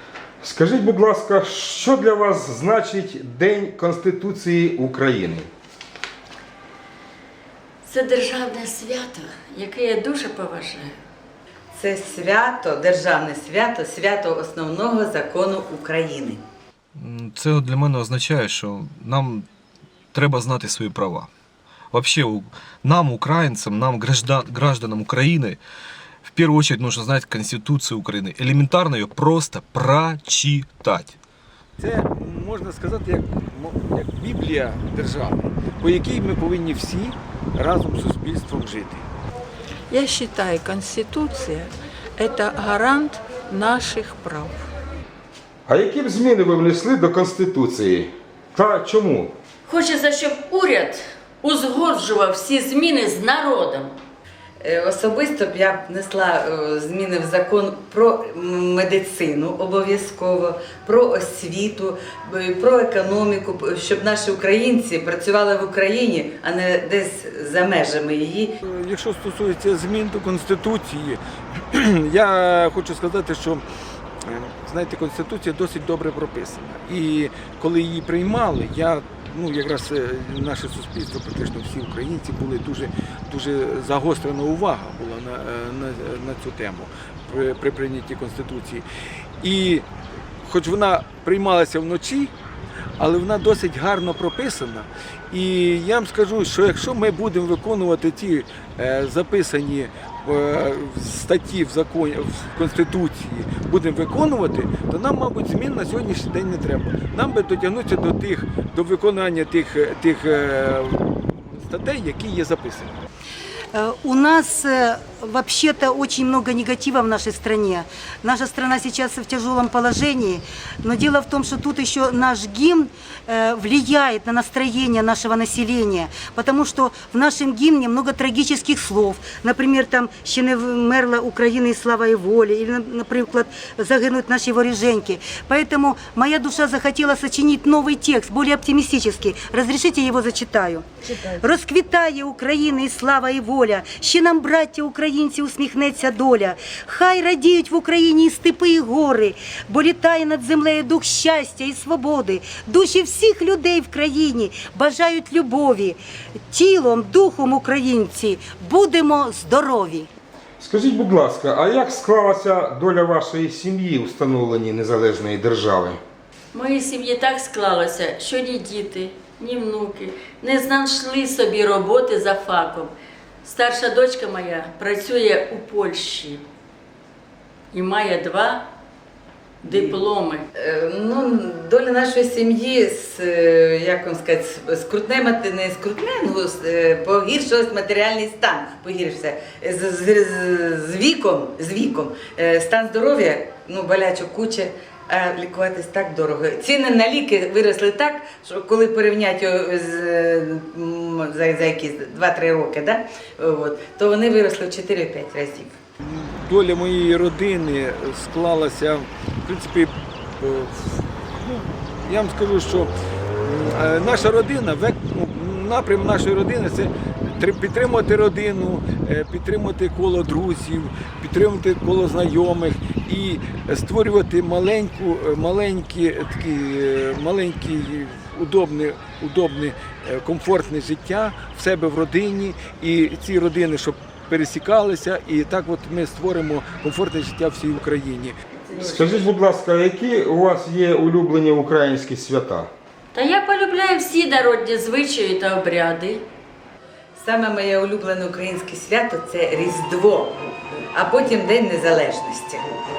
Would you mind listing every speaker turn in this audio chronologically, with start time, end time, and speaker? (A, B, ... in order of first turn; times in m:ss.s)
0:00.4-0:05.5 A
0:07.8-0:10.9 B
0:11.7-0:16.4 C
0:17.0-0:19.4 D
0:20.1-0:21.3 D
0:21.9-0:25.6 D
0:26.2-0:31.2 D
0:31.8-0:39.1 E
0:39.9-0:44.5 F
0:45.7-0:49.3 A
0:49.6-0:53.9 B
0:54.6-1:08.5 C
1:08.6-1:11.2 E
1:11.7-1:13.6 E
1:14.2-1:28.8 E
1:29.4-1:29.8 E
1:30.4-1:32.2 E
1:32.0-1:32.3 D
1:33.0-1:53.0 E
1:33.1-1:33.8 D
1:34.5-1:34.8 D
1:53.7-2:20.8 G
2:21.4-2:36.0 G
2:36.5-2:40.1 G
2:40.6-2:46.0 A
2:46.5-2:56.4 B
2:57.7-2:58.7 B
2:59.6-3:00.0 C
2:59.6-3:00.4 B
3:00.5-3:25.8 C
3:26.0-3:30.9 E
3:32.0-3:32.9 E
3:33.4-3:58.4 E
3:36.0-3:36.3 D
3:37.6-3:38.4 D
3:45.6-3:46.0 D
3:47.8-3:48.2 D
3:58.8-4:02.7 A
4:03.1-4:06.2 B
4:07.2-4:10.4 C
4:10.9-4:12.7 C